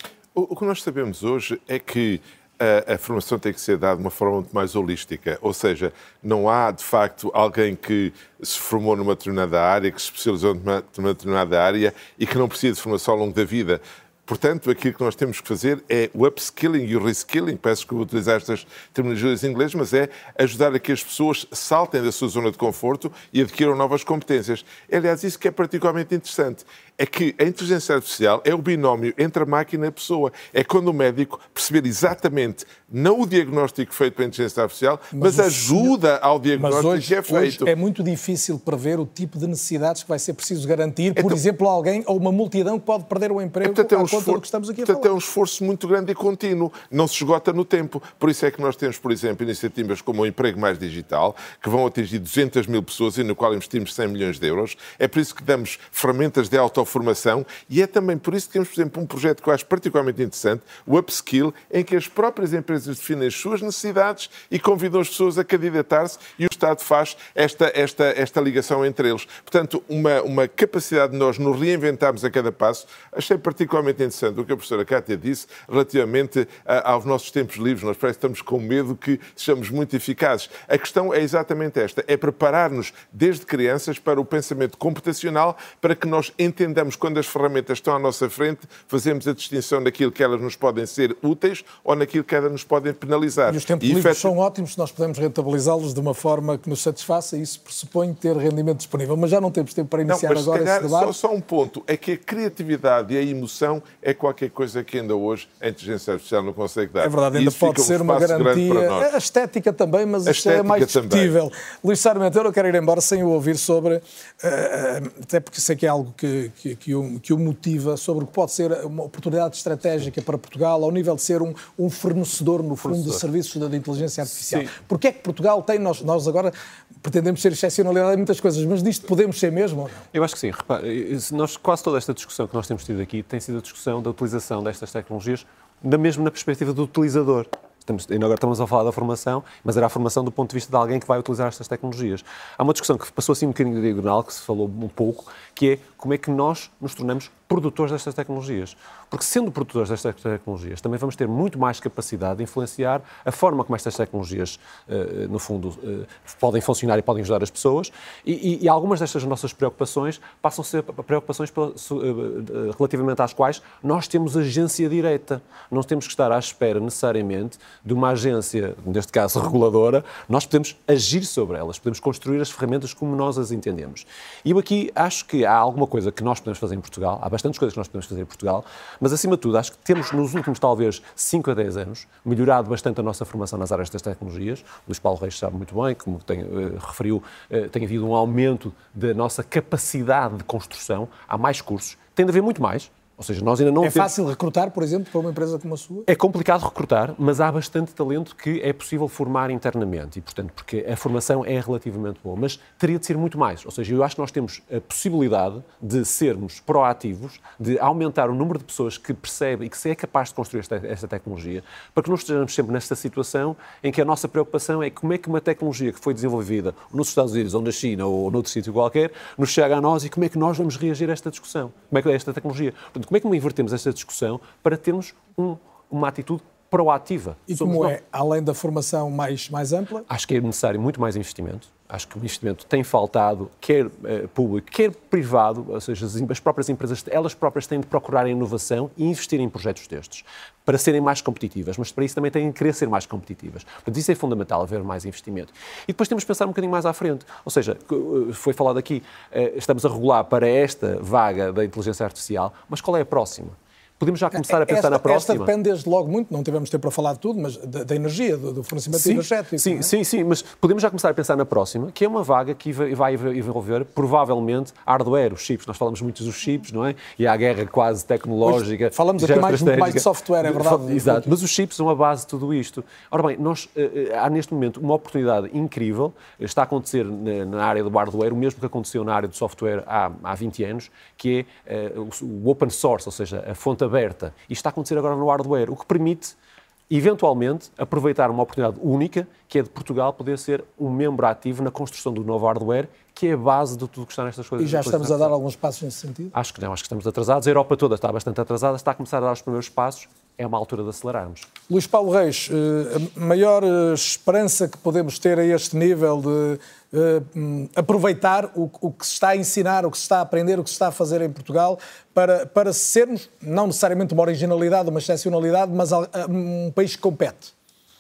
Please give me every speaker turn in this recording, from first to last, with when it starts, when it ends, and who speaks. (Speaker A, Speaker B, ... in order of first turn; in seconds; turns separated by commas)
Speaker A: 0.3-37.7, Speaker B: 35.1-35.9, Speaker B: 36.6-45.1, Speaker A: 43.6-94.3, Speaker B: 93.5-101.2, Speaker A: 100.1-109.1, Speaker B: 107.0-130.0, Speaker A: 110.3-111.3, Speaker C: 122.9-123.2, Speaker C: 124.3-124.7, Speaker C: 130.1-194.1, Speaker B: 193.8-196.1, Speaker C: 196.1-228.0, Speaker B: 227.5-230.1, Speaker C: 230.1-255.5, Speaker B: 254.3-259.9, Speaker C: 258.9-286.4, Speaker B: 268.4-271.3, Speaker C: 286.9-295.3, Speaker B: 294.6-296.3, Speaker C: 296.3-301.5, Speaker B: 301.7-317.5